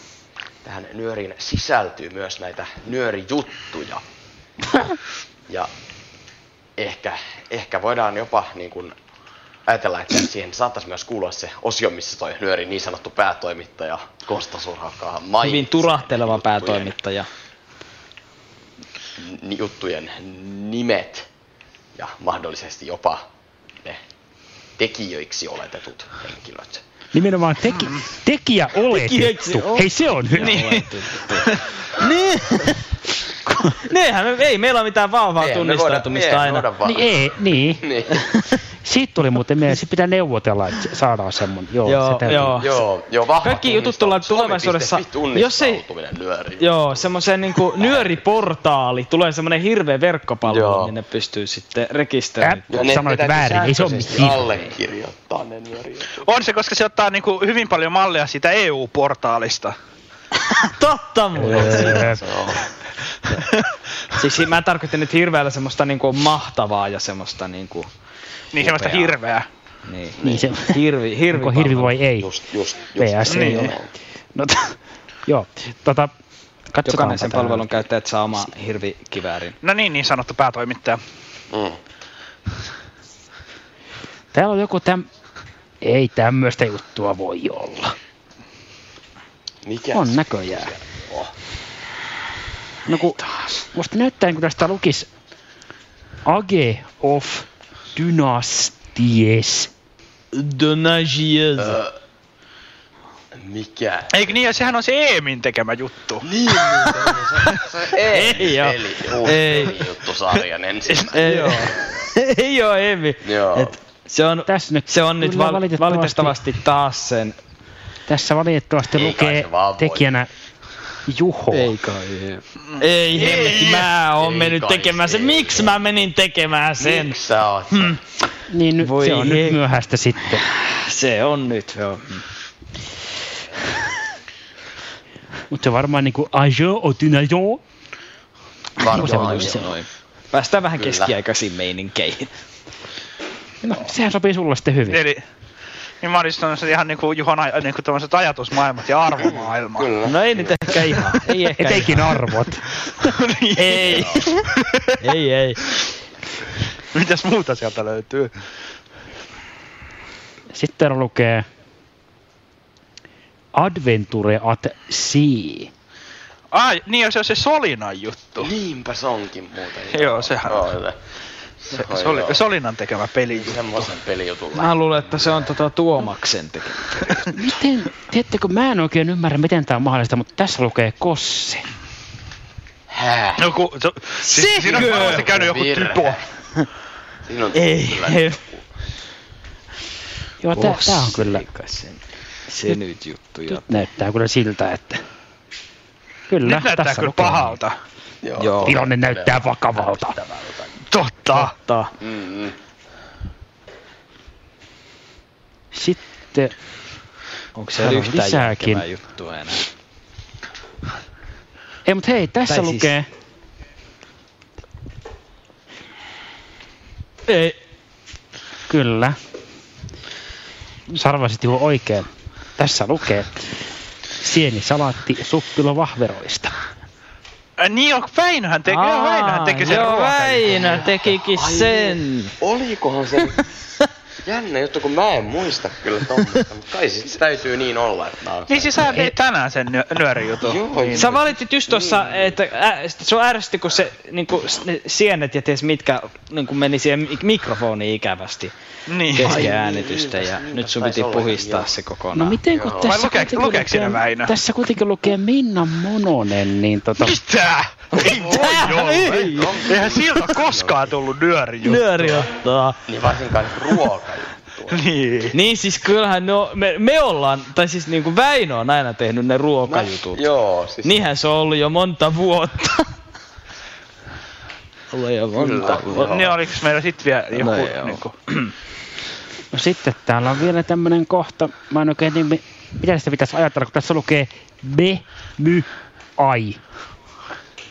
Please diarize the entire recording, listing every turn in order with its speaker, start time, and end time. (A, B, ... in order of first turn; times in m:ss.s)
0:00.6-0:04.0 A
0:06.8-0:08.9 A
0:09.7-0:16.9 A
0:15.4-0:17.3 B
0:19.2-0:21.3 A
0:22.0-0:23.3 A
0:24.8-0:26.8 A
0:27.1-0:30.7 C
0:27.8-0:28.0 D
0:28.9-0:32.8 B
0:30.4-0:30.9 D
0:33.8-0:36.7 B
0:35.4-0:38.2 A
0:36.8-0:37.9 C
0:38.8-0:42.6 C
0:41.8-0:42.7 B
0:42.4-0:48.2 A
0:43.4-0:45.8 B
0:46.6-0:52.7 B
0:50.4-0:50.9 A
0:52.4-0:54.5 C
0:52.7-0:56.2 A
0:56.2-0:59.7 D
1:00.5-1:02.1 B
1:01.4-1:02.2 C
1:01.5-1:02.6 A
1:04.1-1:07.9 B
1:08.5-1:09.5 D
1:08.6-1:09.2 B
1:09.8-1:12.0 B
1:10.2-1:10.5 A
1:10.2-1:10.8 C
1:11.3-1:12.3 C
1:12.2-1:13.9 A
1:12.9-1:13.8 C
1:13.3-1:13.7 D
1:14.3-1:16.1 C
1:16.7-1:17.7 C
1:16.8-1:19.6 B
1:19.6-1:21.0 D
1:21.5-1:21.8 A
1:24.3-1:25.1 C
1:25.8-1:27.9 C
1:29.6-1:31.3 A
1:29.9-1:30.7 C
1:32.8-1:35.1 C
1:36.2-1:39.7 C
1:40.3-1:41.8 B
1:41.6-1:42.0 A
1:43.3-1:44.4 A
1:44.1-1:46.3 D
1:46.2-1:52.1 A
1:48.1-1:49.8 B
1:50.9-1:51.4 D
1:51.1-1:57.4 B
1:53.2-1:53.8 A
1:54.5-1:56.4 C
1:58.1-2:00.3 C
1:58.9-2:00.1 A
2:01.1-2:01.8 C
2:01.5-2:07.2 B
2:03.1-2:05.9 A
2:06.8-2:08.0 A
2:07.7-2:08.0 B
2:08.5-2:10.4 C
2:08.8-2:09.6 B
2:10.3-2:12.3 B
2:15.5-2:17.6 C
2:18.8-2:19.7 A
2:18.9-2:22.3 B
2:18.9-2:19.7 C
2:20.8-2:21.1 A
2:23.6-2:25.0 C
2:24.9-2:25.2 D
2:26.0-2:29.9 D
2:29.2-2:31.0 A
2:30.1-2:32.1 B
2:31.6-2:32.7 C
2:32.9-2:35.0 D
2:33.6-2:34.4 B
2:33.8-2:34.3 A
2:35.0-2:35.6 B
2:36.9-2:38.3 D
2:40.5-2:41.5 C
2:43.5-2:45.7 C
2:46.5-2:48.5 D
2:48.4-2:51.0 A
2:49.9-2:50.8 D
2:51.6-2:52.5 A
2:51.7-2:53.9 D
2:53.3-2:55.5 A
2:54.5-2:57.3 B
2:57.3-3:01.7 C
3:02.9-3:03.5 A
3:03.4-3:06.2 D
3:04.2-3:05.4 B
3:04.6-3:06.2 A
3:07.2-3:08.7 A
3:07.5-3:08.4 B
3:10.4-3:11.4 C
3:10.5-3:13.6 B
3:13.5-3:15.0 C
3:16.3-3:17.6 C
3:16.4-3:17.8 D
3:18.2-3:20.8 A
3:18.4-3:18.8 B
3:18.6-3:20.2 C
3:20.9-3:21.5 D
3:21.3-3:21.9 B
3:22.0-3:22.6 A
3:25.7-3:26.5 C
3:27.5-3:29.7 B
3:27.8-3:28.8 C
3:31.8-3:33.1 C
3:32.5-3:32.9 B
3:37.3-3:37.6 B
3:38.7-3:39.2 C
3:40.9-3:43.5 C
3:44.2-3:46.5 C
3:47.6-3:51.0 D
3:48.7-3:52.3 B
3:51.3-3:53.4 A
3:54.2-3:59.0 A
3:58.5-4:01.2 D
4:00.3-4:02.4 A
4:00.9-4:08.5 B
4:08.9-4:09.4 D
4:09.1-4:12.4 B
4:09.2-4:11.7 A
4:12.2-4:17.2 C
4:12.5-4:13.0 A
4:12.8-4:14.3 D
4:17.0-4:22.3 D
4:18.0-4:20.9 A
4:18.1-4:19.6 B
4:21.6-4:22.8 B
4:22.9-4:24.8 A
4:24.7-4:25.4 D
4:25.3-4:30.2 B
4:29.7-4:31.1 A
4:30.8-4:32.9 B
4:34.9-4:36.3 B
4:35.4-4:36.4 A
4:36.0-4:38.1 D
4:37.4-4:38.5 B
4:39.5-4:46.6 C